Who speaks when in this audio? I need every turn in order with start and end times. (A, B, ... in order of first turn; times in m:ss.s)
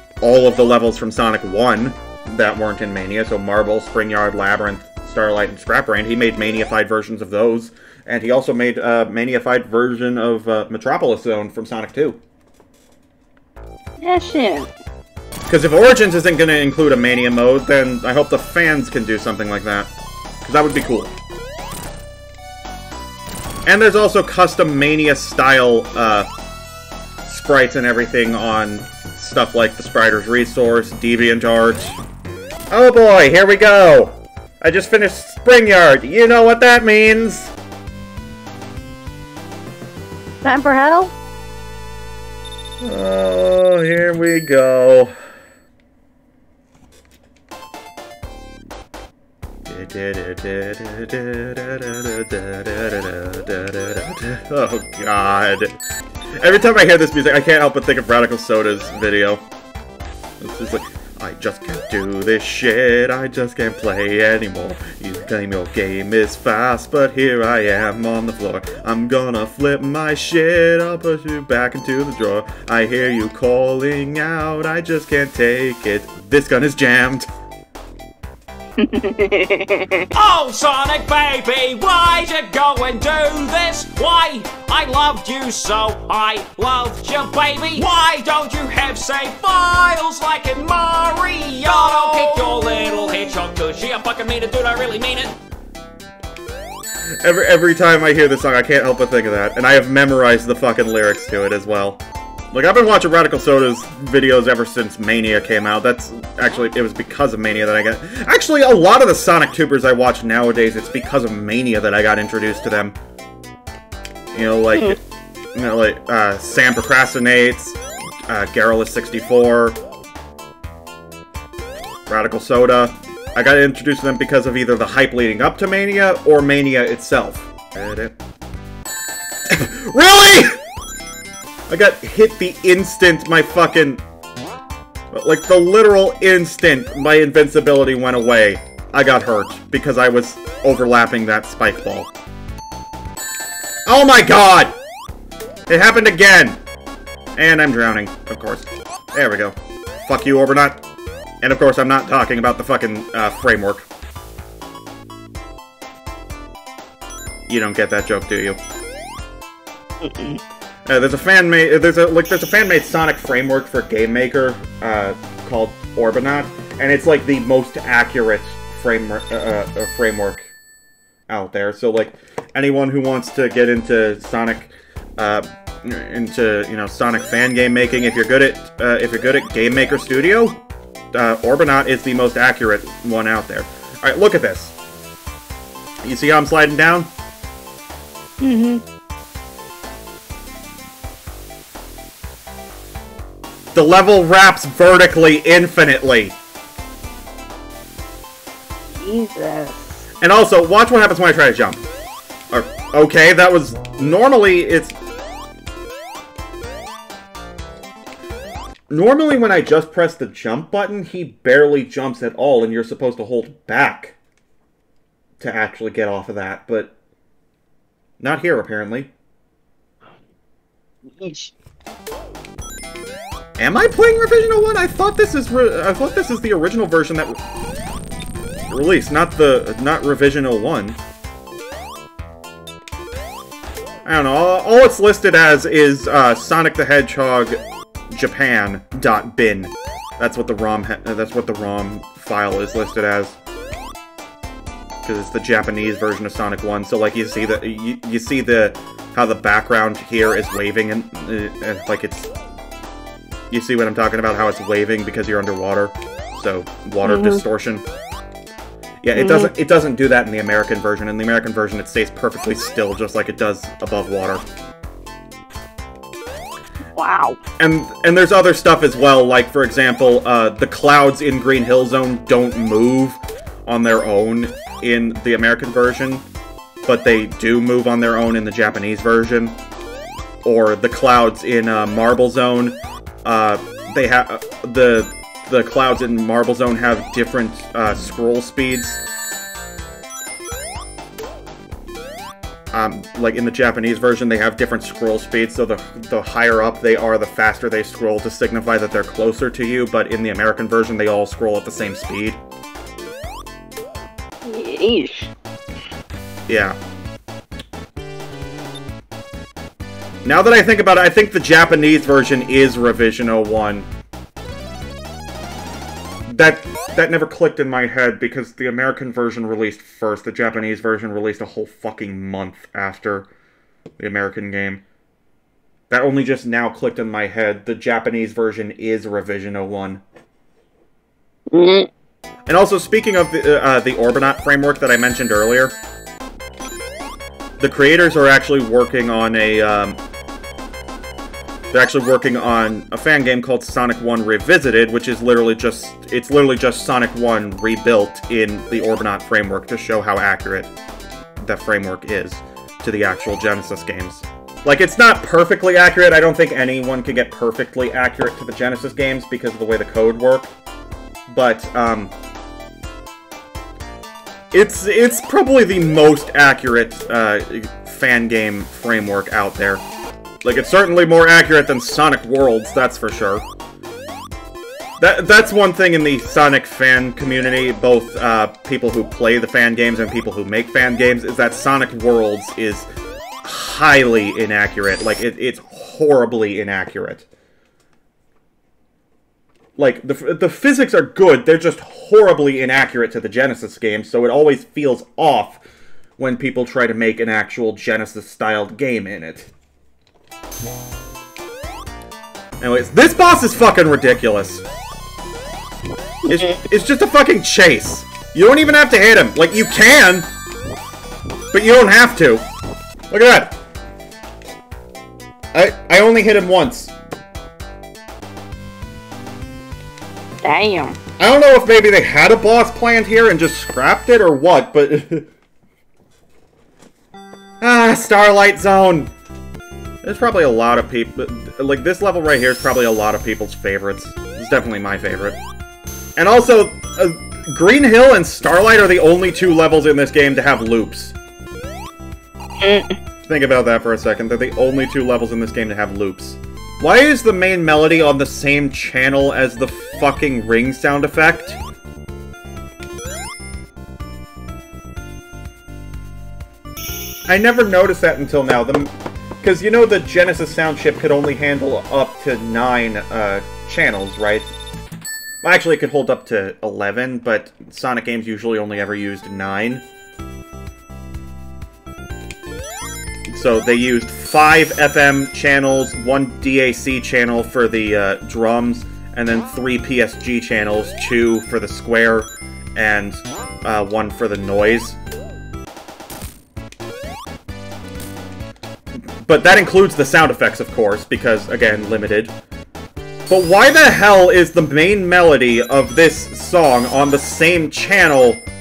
0:00.2-0:12.2 A
0:14.0-0:14.7 B
0:15.5-0:21.1 A
0:23.6-0:26.3 A
0:27.2-0:32.0 A
0:32.7-0:37.5 A
0:40.4-0:41.1 B
0:42.8-0:45.1 A
0:49.6-0:55.7 A
0:56.4-0:59.4 A
1:00.4-1:17.3 A
1:18.8-1:20.1 B
1:20.1-1:35.4 C
1:37.2-1:53.0 A
1:54.3-1:55.0 A
1:55.5-1:59.8 A
2:02.1-2:08.1 A
2:09.5-2:10.6 A
2:11.7-2:14.0 A
2:15.1-2:22.1 A
2:23.9-2:24.8 A
2:25.7-2:26.6 A
2:27.4-2:30.8 A
2:31.4-2:33.9 A
2:37.5-2:38.6 A
2:40.0-2:40.4 B
2:40.9-2:50.5 A
2:51.3-3:00.6 A
3:01.1-3:04.7 A
3:06.0-3:07.1 A
3:08.4-3:08.8 B
3:13.7-3:16.4 A
3:18.9-3:20.1 B
3:20.2-3:21.8 A
3:22.5-3:24.9 A
3:28.9-3:34.2 A
3:35.4-3:36.9 A
3:38.2-3:39.1 A
3:41.2-3:41.5 B
3:43.6-3:47.4 A
3:48.7-3:51.0 A
3:54.0-4:03.4 A
4:05.0-4:12.3 A
4:13.5-4:17.9 A
4:17.0-4:17.4 B
4:19.0-4:24.4 A
4:19.1-4:19.5 B
4:26.9-4:27.4 B
4:27.6-4:36.2 A
4:36.8-4:39.6 A
4:40.4-4:49.0 A
4:52.7-5:02.4 A
5:04.4-5:05.3 B
5:06.5-5:06.8 A
5:10.2-5:13.9 A
5:16.3-5:23.3 A
5:24.0-5:24.8 A
5:25.9-5:30.0 A
5:31.5-5:31.9 B
5:32.5-5:35.8 A
5:37.6-5:40.0 A
5:41.7-5:50.7 A
5:51.4-6:00.5 A
6:01.3-6:02.1 A
6:04.5-6:09.8 A
6:10.4-6:13.4 A
6:15.0-6:22.9 A
6:23.4-6:27.3 A
6:29.8-6:35.6 A
6:36.2-6:39.5 A
6:42.6-6:44.6 A
6:46.2-6:46.6 B
6:46.3-6:50.3 A
6:51.5-6:52.4 A
6:53.1-6:53.5 A
6:55.5-6:56.9 A
7:00.4-7:01.0 B
7:01.2-7:05.3 A
7:07.6-7:09.1 A
7:10.0-7:15.4 A
7:16.2-7:21.2 A
7:22.6-7:23.0 B
7:23.2-7:31.6 A
7:37.3-7:44.5 A
7:45.4-7:49.8 A
7:53.3-8:05.0 A
8:09.2-8:12.3 A
8:13.3-8:18.4 A